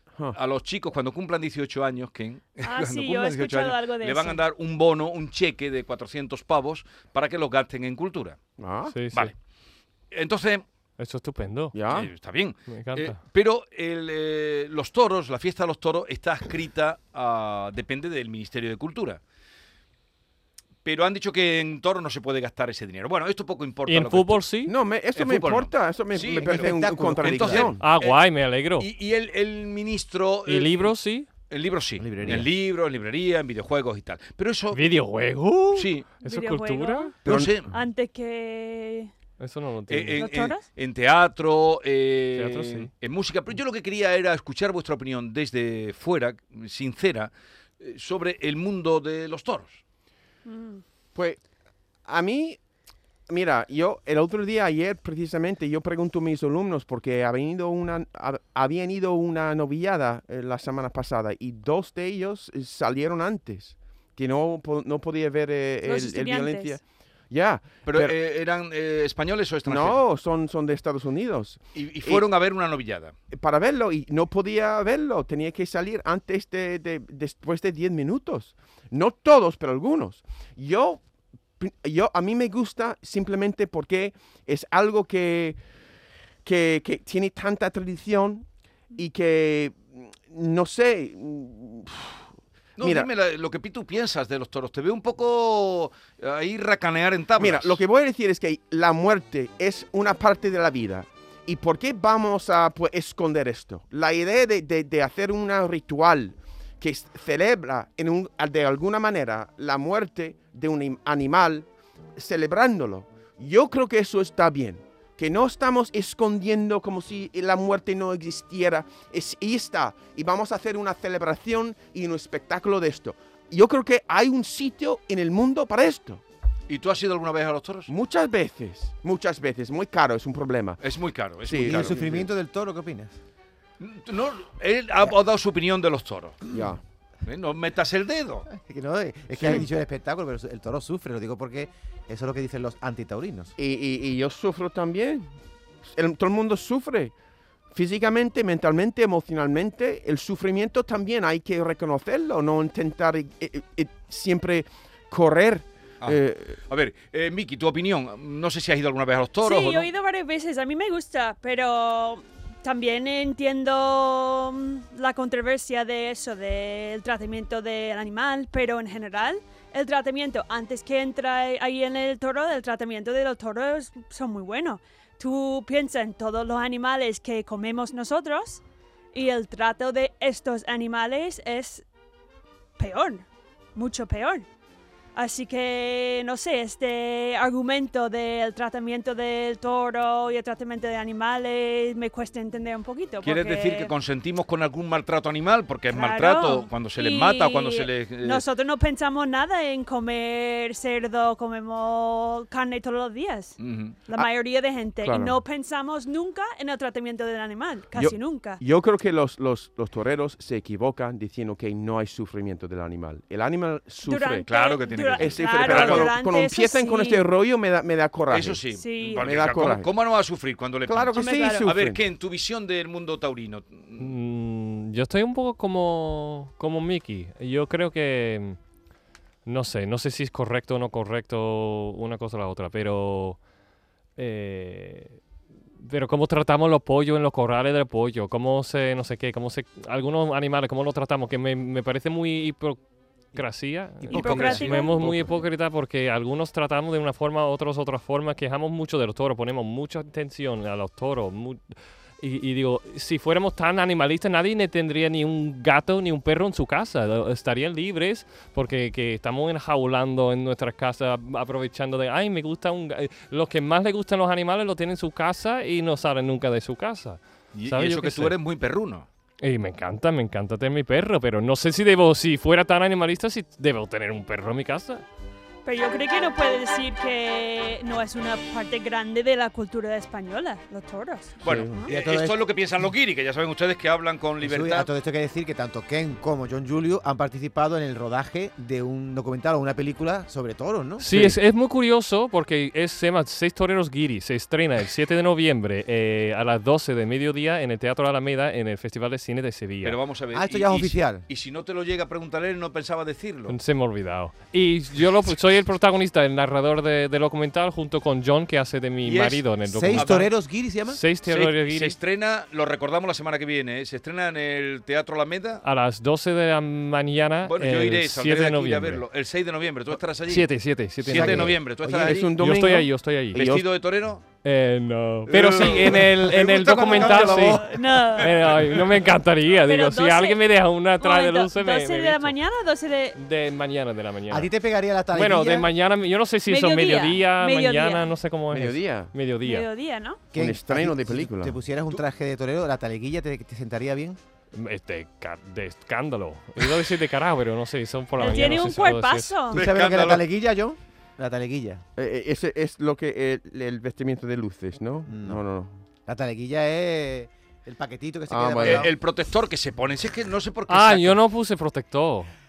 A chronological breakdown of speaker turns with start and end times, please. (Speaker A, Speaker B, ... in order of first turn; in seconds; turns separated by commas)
Speaker A: 0.3-8.4, Speaker B: 2.6-4.4, Speaker C: 8.6-8.9, Speaker D: 8.9-9.3, Speaker A: 10.1-10.6, Speaker D: 11.0-11.8, Speaker C: 11.7-12.1, Speaker A: 11.9-19.2, Speaker D: 12.7-13.2, Speaker A: 20.8-24.4, Speaker D: 23.9-24.7, Speaker C: 24.6-27.8, Speaker A: 25.1-28.2, Speaker E: 26.3-27.7, Speaker D: 27.8-28.9, Speaker A: 28.8-30.9, Speaker D: 30.5-31.3, Speaker A: 31.5-34.8, Speaker E: 32.0-32.5, Speaker D: 34.7-37.1, Speaker A: 35.8-36.1, Speaker B: 36.2-39.1, Speaker C: 37.2-37.5, Speaker A: 37.2-37.7, Speaker D: 39.4-40.3, Speaker A: 39.9-49.8, Speaker B: 40.2-40.6, Speaker D: 42.3-42.9, Speaker B: 50.5-50.8, Speaker C: 51.1-51.4, Speaker C: 52.0-52.6, Speaker C: 53.3-68.1, Speaker B: 65.8-66.8, Speaker A: 67.8-70.0, Speaker C: 69.7-72.2, Speaker A: 71.8-73.1, Speaker C: 73.3-81.0, Speaker C: 81.6-85.6, Speaker C: 86.4-92.2, Speaker A: 92.8-97.8, Speaker C: 92.8-93.1, Speaker C: 97.4-126.2, Speaker A: 126.7-127.9, Speaker C: 127.9-130.8, Speaker A: 130.8-132.2, Speaker C: 131.5-132.2, Speaker E: 131.6-133.2, Speaker A: 133.8-136.4, Speaker C: 136.5-136.8, Speaker A: 137.2-138.5, Speaker E: 138.5-143.5, Speaker C: 143.6-145.3, Speaker C: 145.9-147.1, Speaker C: 147.7-156.6, Speaker A: 156.0-159.9, Speaker B: 159.4-178.6, Speaker B: 179.1-181.8, Speaker B: 182.8-184.5, Speaker B: 185.1-193.9, Speaker A: 193.2-198.4, Speaker B: 195.9-208.6, Speaker A: 203.6-204.0, Speaker C: 205.0-205.4, Speaker C: 207.9-214.5, Speaker B: 214.0-217.2, Speaker A: 214.5-216.1, Speaker C: 215.2-218.6, Speaker A: 218.3-224.1, Speaker B: 218.7-219.3, Speaker C: 219.2-219.9, Speaker C: 220.9-222.0, Speaker B: 221.1-221.7, Speaker D: 224.0-228.6, Speaker D: 229.5-233.4, Speaker D: 234.2-235.2, Speaker D: 235.8-242.8, Speaker D: 243.3-268.4, Speaker E: 244.0-244.7, Speaker B: 244.1-245.0, Speaker A: 267.5-269.1, Speaker D: 269.4-275.0, Speaker B: 275.6-281.9, Speaker A: 281.4-284.9, Speaker E: 281.5-282.5, Speaker E: 284.4-291.3, Speaker D: 291.0-300.0, Speaker A: 299.8-303.6, Speaker E: 300.3-301.2, Speaker D: 303.5-310.3, Speaker A: 309.0-310.3, Speaker E: 309.7-311.0, Speaker D: 310.9-312.0, Speaker A: 311.3-315.6, Speaker D: 315.6-319.0, Speaker A: 317.5-320.5, Speaker D: 320.3-321.6, Speaker A: 321.0-322.3, Speaker E: 321.1-322.1, Speaker C: 321.1-323.6, Speaker D: 322.2-323.4, Speaker A: 323.3-324.2, Speaker D: 324.4-332.4, Speaker A: 325.3-328.9, Speaker B: 327.1-328.4, Speaker B: 329.6-330.4, Speaker B: 331.0-333.2, Speaker D: 333.1-334.5, Speaker E: 334.3-335.7, Speaker D: 335.1-339.7, Speaker B: 336.5-338.1, Speaker C: 338.5-339.1, Speaker B: 339.4-340.2, Speaker E: 340.3-344.2, Speaker C: 340.3-341.6, Speaker D: 344.5-349.4, Speaker B: 348.2-349.6, Speaker A: 349.5-350.2, Speaker E: 349.5-351.8, Speaker C: 352.0-355.7, Speaker E: 355.1-355.4, Speaker E: 356.1-358.9, Speaker C: 358.3-358.9, Speaker A: 358.6-361.2, Speaker D: 360.7-362.3